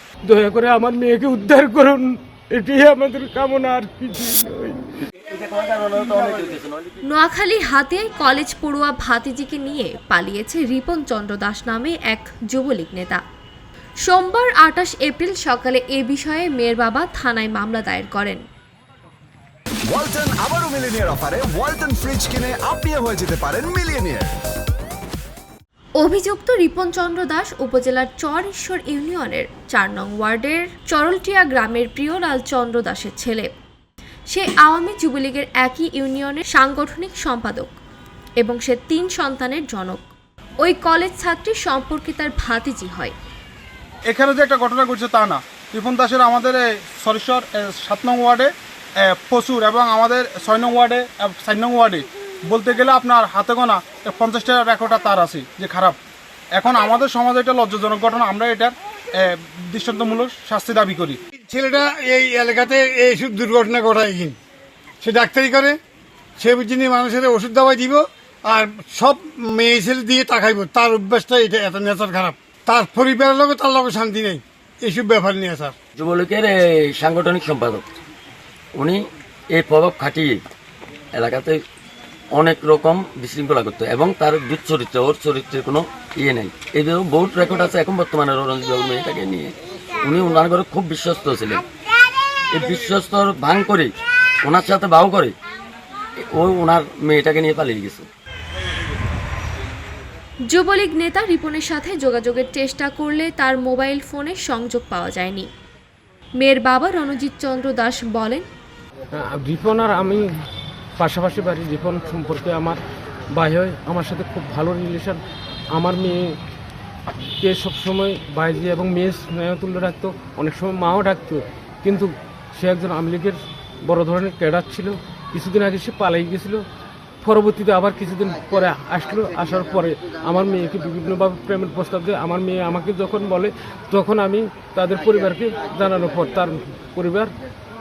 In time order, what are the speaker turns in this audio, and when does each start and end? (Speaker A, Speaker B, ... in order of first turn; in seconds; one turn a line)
Speaker A: 0.3-4.8
Speaker B: 5.4-6.7
Speaker C: 7.0-13.2
Speaker C: 14.0-18.4
Speaker D: 19.8-24.4
Speaker C: 26.0-33.5
Speaker C: 34.3-37.7
Speaker C: 38.4-40.0
Speaker C: 40.6-43.1
Speaker E: 44.1-48.5
Speaker E: 49.0-56.0
Speaker E: 56.5-61.2
Speaker F: 61.4-64.4
Speaker F: 65.0-65.8
Speaker F: 66.4-75.8
Speaker B: 76.0-77.8
Speaker B: 78.8-80.4
Speaker B: 81.1-81.6
Speaker B: 82.3-91.6
Speaker B: 92.5-93.9
Speaker B: 94.4-95.3
Speaker B: 96.2-98.1
Speaker C: 100.5-105.5
Speaker C: 106.4-108.5
Speaker A: 109.1-110.2
Speaker A: 111.0-112.8
Speaker A: 113.3-115.2
Speaker A: 115.7-116.3
Speaker A: 117.4-126.6
Speaker A: 127.2-137.3